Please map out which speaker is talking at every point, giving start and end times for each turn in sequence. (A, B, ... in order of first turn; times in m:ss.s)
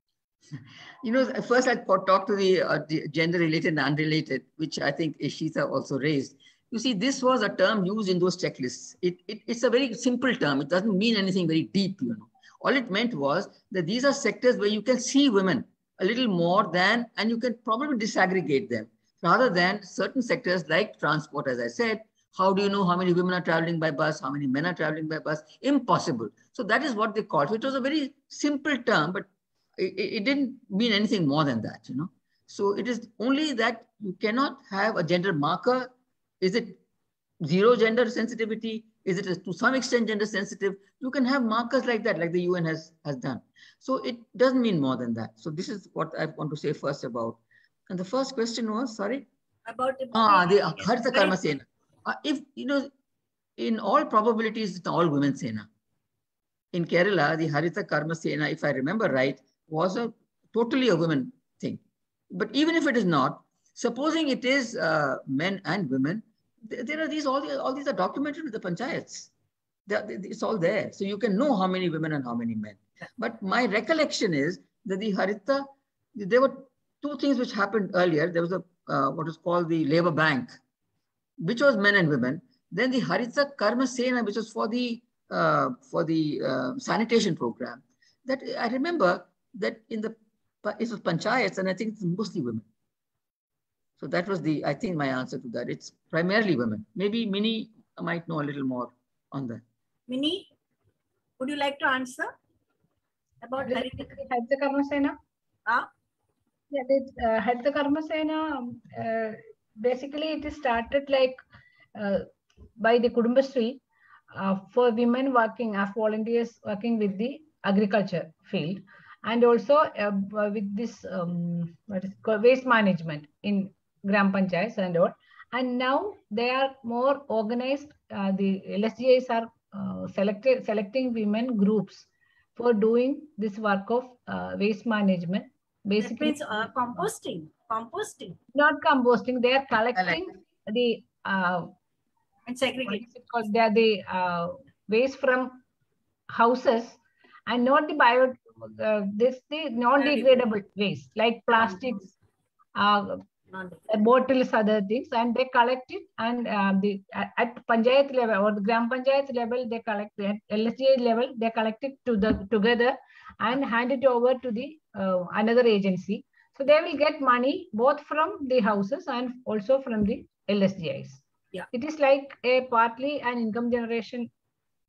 0:00.5-0:36.8 A
0:37.4-0:49.3 A
0:49.6-0:51.4 B
0:50.1-0:52.9 A
0:53.6-0:55.7 A
0:56.7-1:09.3 A
1:09.9-1:20.6 A
1:21.4-1:32.6 A
1:34.0-1:39.6 A
1:40.1-1:40.5 B
1:41.4-1:42.3 B
1:43.4-1:44.1 B
1:43.6-1:45.2 C
1:46.7-1:51.4 C
1:52.0-1:53.8 C
1:54.3-2:17.0 C
2:16.0-2:18.4 B
2:18.5-2:21.7 C
2:20.0-2:20.2 A
2:22.5-2:23.1 B
2:22.8-2:25.6 C
2:26.3-2:32.1 C
2:30.0-2:30.4 B
2:31.6-2:31.8 B
2:32.8-2:33.2 C
2:33.5-2:34.1 B
2:33.9-2:54.3 C